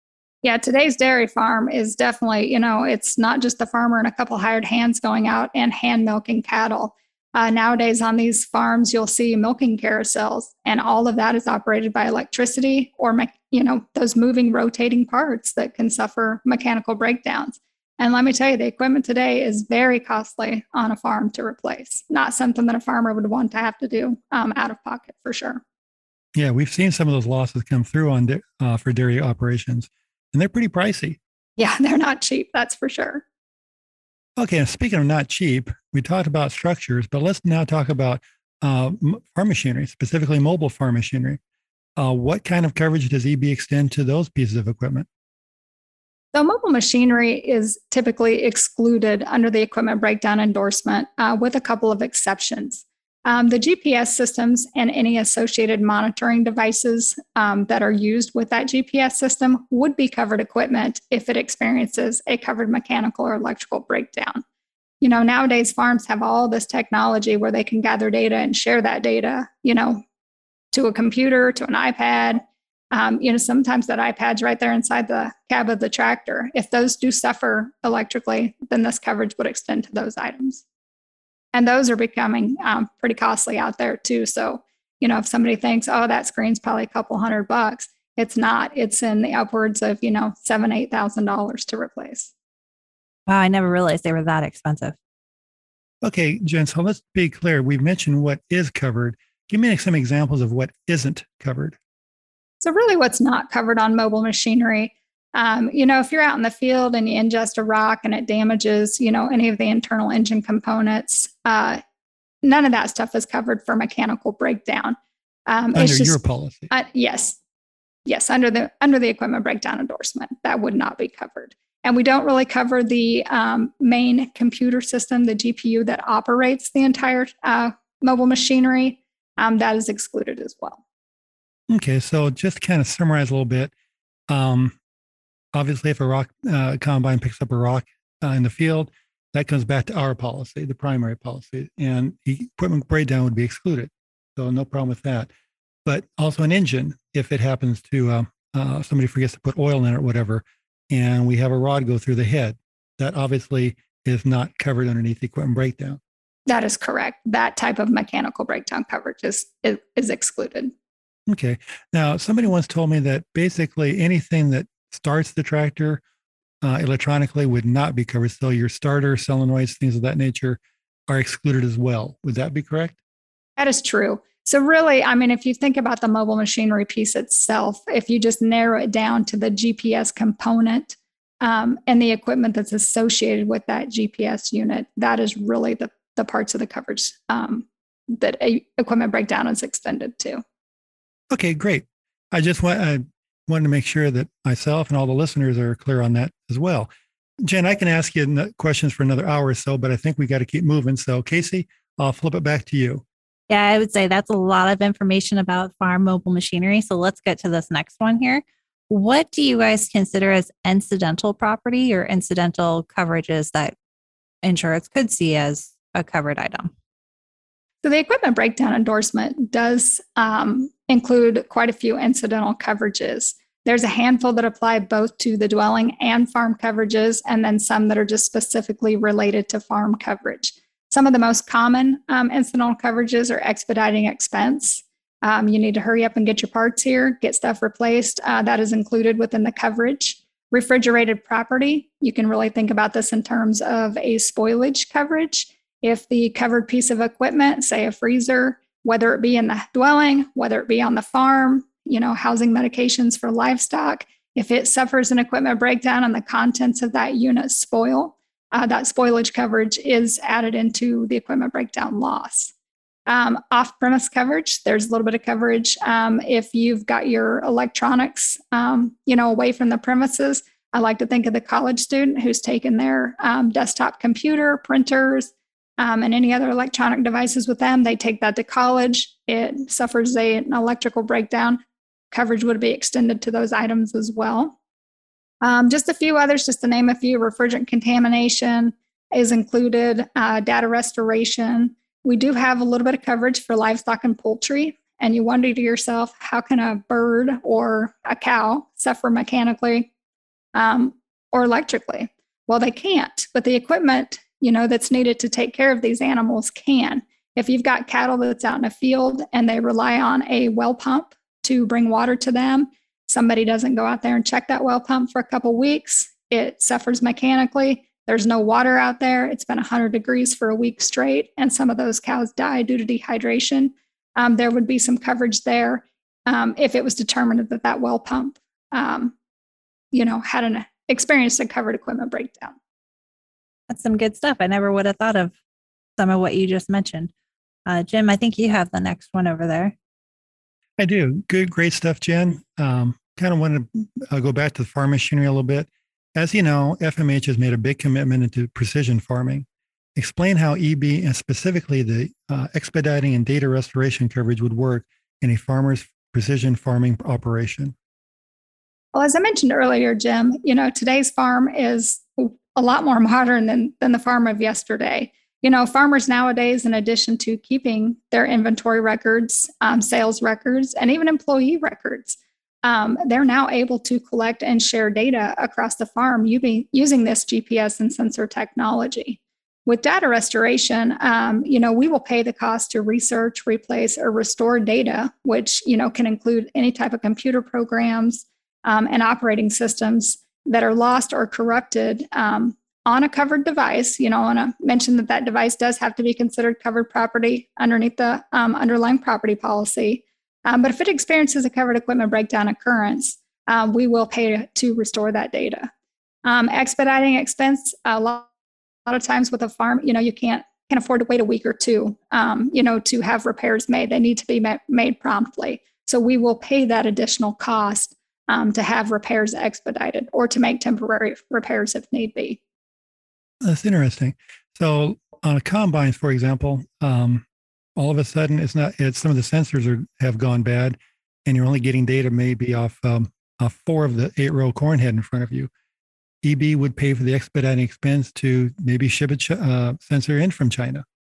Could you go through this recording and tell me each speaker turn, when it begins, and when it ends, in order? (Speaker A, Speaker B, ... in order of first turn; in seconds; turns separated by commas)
Speaker A: 0.4-25.6, Speaker B: 26.4-31.2, Speaker A: 31.6-33.2, Speaker B: 34.4-41.4, Speaker B: 42.0-45.1, Speaker A: 46.3-64.4, Speaker A: 65.0-70.0, Speaker A: 70.7-80.6, Speaker A: 81.5-92.3, Speaker C: 93.3-94.9, Speaker B: 96.0-101.8, Speaker A: 102.6-111.8, Speaker A: 112.4-116.2, Speaker B: 115.7-116.7, Speaker A: 116.7-117.4, Speaker A: 118.1-130.8, Speaker B: 131.7-133.7, Speaker B: 134.3-134.8, Speaker B: 135.5-145.3, Speaker B: 145.9-156.0, Speaker A: 156.5-160.7, Speaker B: 161.3-166.0, Speaker B: 166.6-173.0, Speaker A: 173.6-190.4, Speaker B: 191.3-196.9, Speaker B: 197.4-203.0, Speaker C: 203.5-213.8, Speaker C: 214.4-216.7, Speaker A: 217.8-262.5, Speaker A: 263.1-281.6, Speaker A: 282.1-284.6, Speaker A: 285.4-299.9, Speaker A: 300.5-329.1, Speaker A: 329.9-332.6, Speaker C: 333.7-335.4, Speaker C: 336.0-337.1, Speaker C: 337.6-339.8, Speaker B: 340.8-357.7, Speaker A: 358.9-405.7, Speaker A: 406.2-408.3, Speaker A: 408.9-422.4, Speaker B: 423.4-427.2, Speaker B: 427.8-435.5, Speaker B: 436.2-440.8